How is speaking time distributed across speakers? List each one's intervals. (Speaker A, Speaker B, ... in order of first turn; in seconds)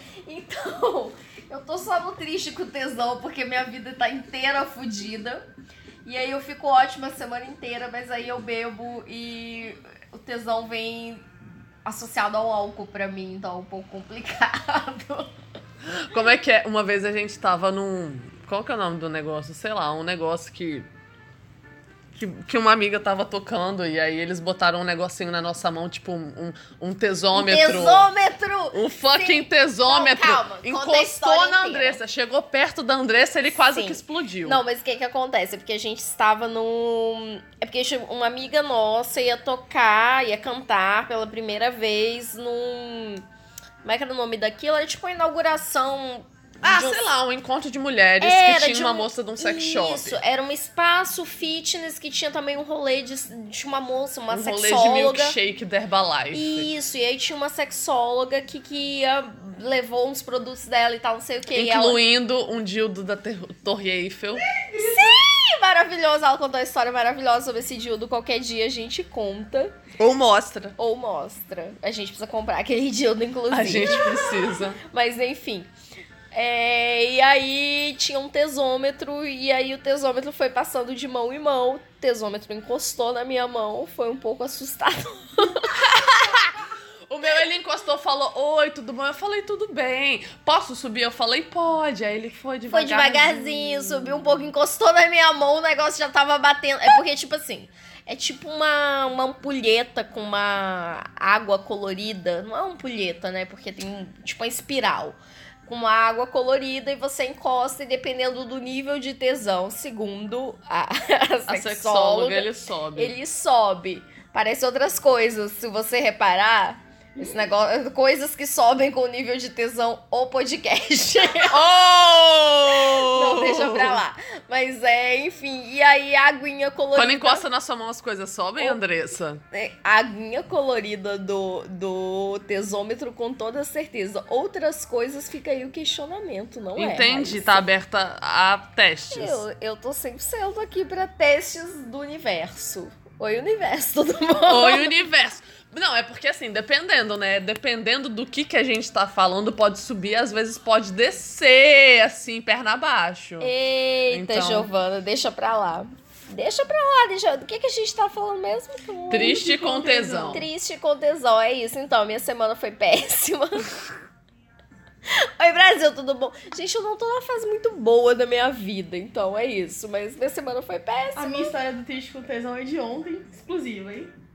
Speaker A: 0.2-5.4, 6.0-11.3, 11.8-15.3, 27.3-32.0, 33.5-43.2, 43.8-47.1, 48.2-55.4, 56.3-62.0, 64.8-69.8, 70.8-75.7, 76.3-85.8, 92.7-121.6, 122.7-127.5, 129.5-137.7, 139.1-144.9, 153.4-159.4, 160.3-163.7, 165.4-171.5
Speaker B: 15.9-20.9, 22.1-28.1, 28.7-34.6, 46.6-50.2, 54.3-56.7, 61.5-64.5, 70.0-70.8, 73.5-74.8, 85.8-94.5, 111.5-113.2, 121.5-124.0, 126.9-129.4, 136.8-139.4, 144.5-153.5, 154.1-154.7, 159.1-160.5
Speaker C: 64.5-65.1, 117.2-117.4, 159.1-160.4, 171.2-174.1